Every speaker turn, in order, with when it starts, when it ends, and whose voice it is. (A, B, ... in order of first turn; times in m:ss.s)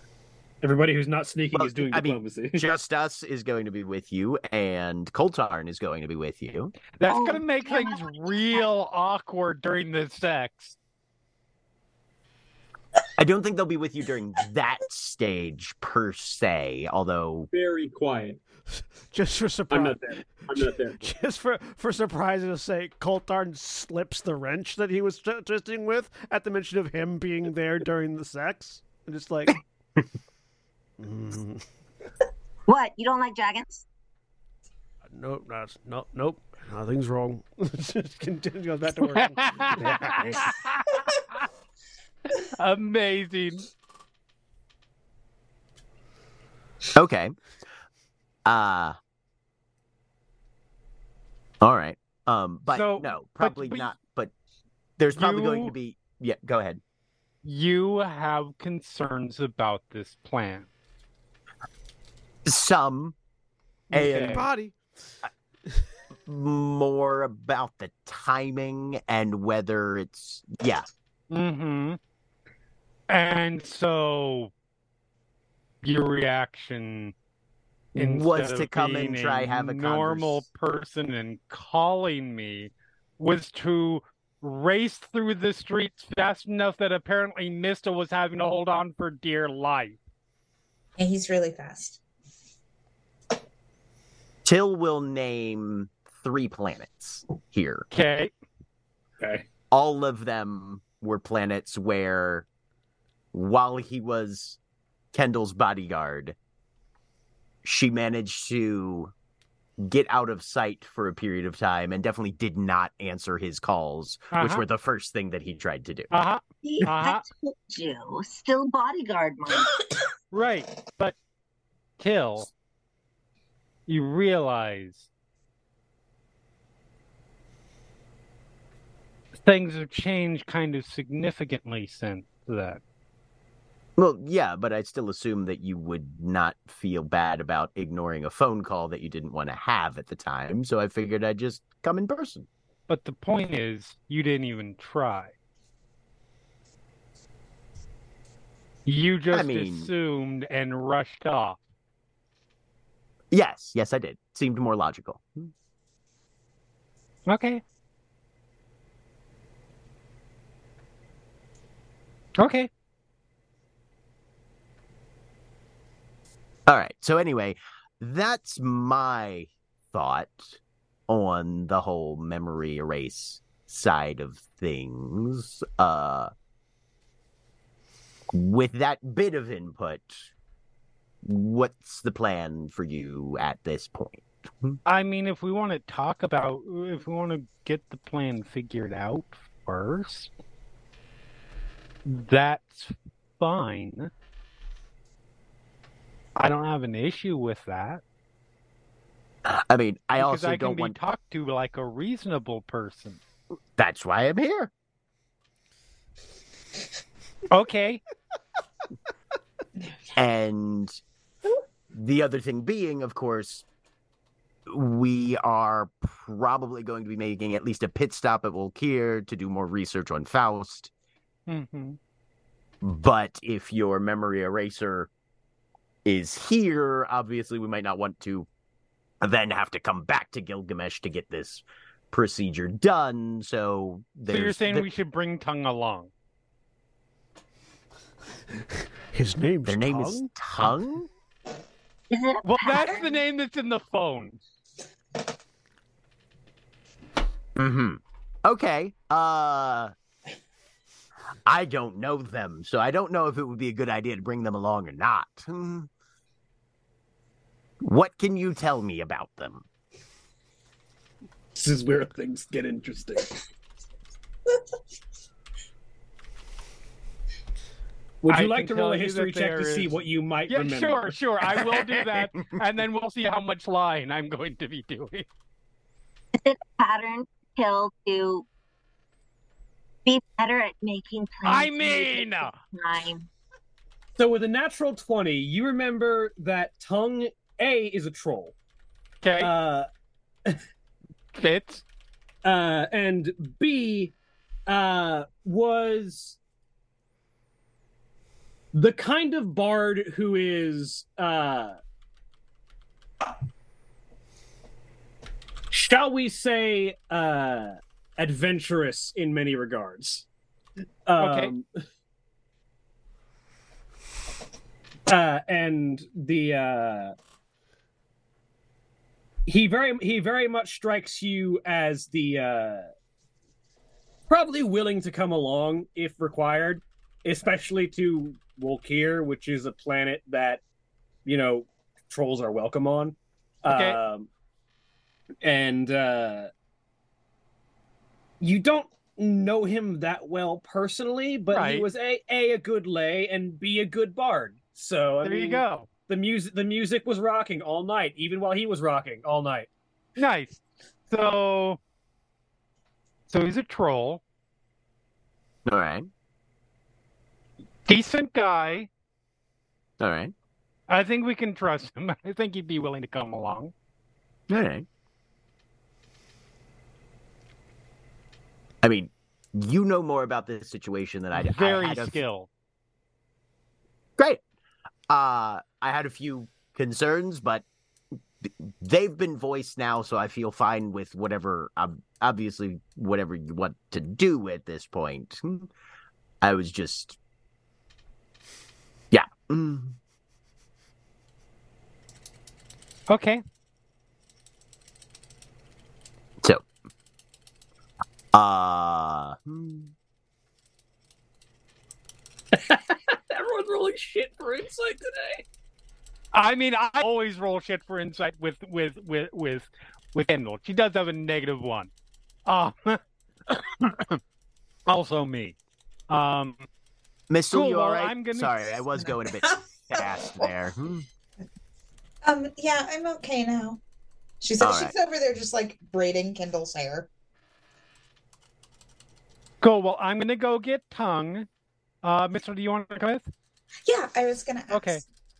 0:00.6-0:02.7 A
0:01.5-0:06.8 B
0:07.0-0:10.8 C
0:07.1-0:08.6 D
0:13.2-0:17.5 B
0:17.5-0:18.4 E
0:18.8-0:29.6 F
0:19.7-0:21.0 E
0:31.0-0:31.6 F
0:32.7-0:33.9 D
0:35.1-0:40.0 F
0:39.0-0:41.3 C
0:42.4-0:43.7 C
0:46.9-0:47.3 B
0:48.5-0:49.0 B
0:51.6-0:54.3 B
0:52.7-0:53.9 C
0:55.0-0:56.8 B
0:55.1-0:55.7 C
0:57.4-1:00.7 C
1:02.5-1:03.2 B
1:03.9-1:04.4 C
1:03.9-1:04.5 B
1:04.2-1:05.2 F
1:06.3-1:10.8 B
1:11.3-1:12.0 C
1:13.1-1:14.5 C
1:15.8-1:17.2 C
1:18.0-1:20.4 B
1:18.0-1:30.0 C
1:31.0-1:32.0 G
1:34.4-1:37.9 B
1:37.9-1:38.3 C
1:39.2-1:39.5 A
1:39.7-1:42.5 B
1:43.3-1:44.6 B
1:45.1-1:46.4 B
1:47.6-1:49.1 B
1:49.8-1:56.1 B
1:54.3-1:54.6 C
1:56.1-1:57.2 C
1:56.6-1:59.7 D
2:00.3-2:01.2 C
2:02.0-2:02.5 C
2:03.9-2:05.1 C
2:09.4-2:12.8 C
2:14.0-2:22.5 B
2:22.9-2:25.3 C
2:28.9-2:31.6 C
2:29.3-2:29.9 B
2:33.3-2:35.5 B
2:37.3-2:37.6 C
2:42.4-2:42.7 C
2:46.7-2:56.3 B
2:58.3-3:00.3 B
3:01.2-3:04.8 B
3:04.9-3:10.3 C
3:12.0-3:14.1 C
3:16.4-3:18.0 C
3:19.4-3:21.0 B
3:20.2-3:23.2 C
3:23.8-3:24.7 B
3:27.5-3:28.0 C
3:30.2-3:31.0 B
3:31.9-3:33.6 B
3:34.7-3:40.9 B
3:41.5-3:42.0 C
3:42.8-3:45.1 B
3:46.0-3:48.5 B
3:49.2-3:54.9 B
3:54.3-3:56.1 C
3:59.1-4:00.3 F
3:59.6-4:01.1 B
4:02.1-4:03.0 D
4:02.4-4:04.4 C
4:07.6-4:09.9 B
4:11.5-4:15.9 B
4:17.8-4:19.6 B
4:21.6-4:23.4 A
4:28.2-4:31.2 A
4:28.3-4:35.3 C
4:31.6-4:32.6 B
4:36.4-4:38.5 D
4:40.1-4:43.3 D
4:41.4-4:42.6 C
4:44.2-4:48.6 A
4:49.2-4:49.5 C
4:49.4-4:49.9 A
4:51.4-4:51.8 C
4:52.4-4:54.1 A
4:54.7-4:56.4 A
4:58.7-5:01.8 A
5:05.7-5:10.3 A
5:11.1-5:11.7 A
5:11.2-5:11.5 C
5:15.1-5:17.1 A
5:19.5-5:22.9 A
5:24.3-5:30.6 A
5:31.2-5:34.3 A
5:33.7-5:34.0 C
5:35.4-5:36.5 A
5:38.4-5:49.7 A
5:41.5-5:41.9 C
5:45.2-5:45.9 C
5:50.2-5:51.8 C
5:53.3-5:54.2 C
5:55.7-5:56.1 B
5:57.9-5:58.9 C
6:00.0-6:00.3 B
6:00.9-6:03.7 C
6:04.5-6:04.9 B
6:08.8-6:12.2 B
6:11.4-6:12.5 C
6:15.1-6:17.6 B
6:18.4-6:25.7 B
6:26.4-6:27.2 B
6:29.1-6:30.0 B
6:33.1-6:33.4 C
6:38.3-6:39.9 B
6:42.5-6:45.4 A
6:46.3-6:51.9 C
6:52.5-6:54.2 C
6:54.9-6:55.6 C
6:56.1-6:56.7 C
6:57.3-7:01.1 B
6:57.5-6:58.8 C
6:59.0-7:00.5 G
7:02.2-7:03.8 G
7:04.4-7:07.1 G
7:04.6-7:04.9 B
7:09.6-7:11.5 C
7:12.0-7:13.3 C
7:13.9-7:15.0 G
7:14.7-7:15.0 C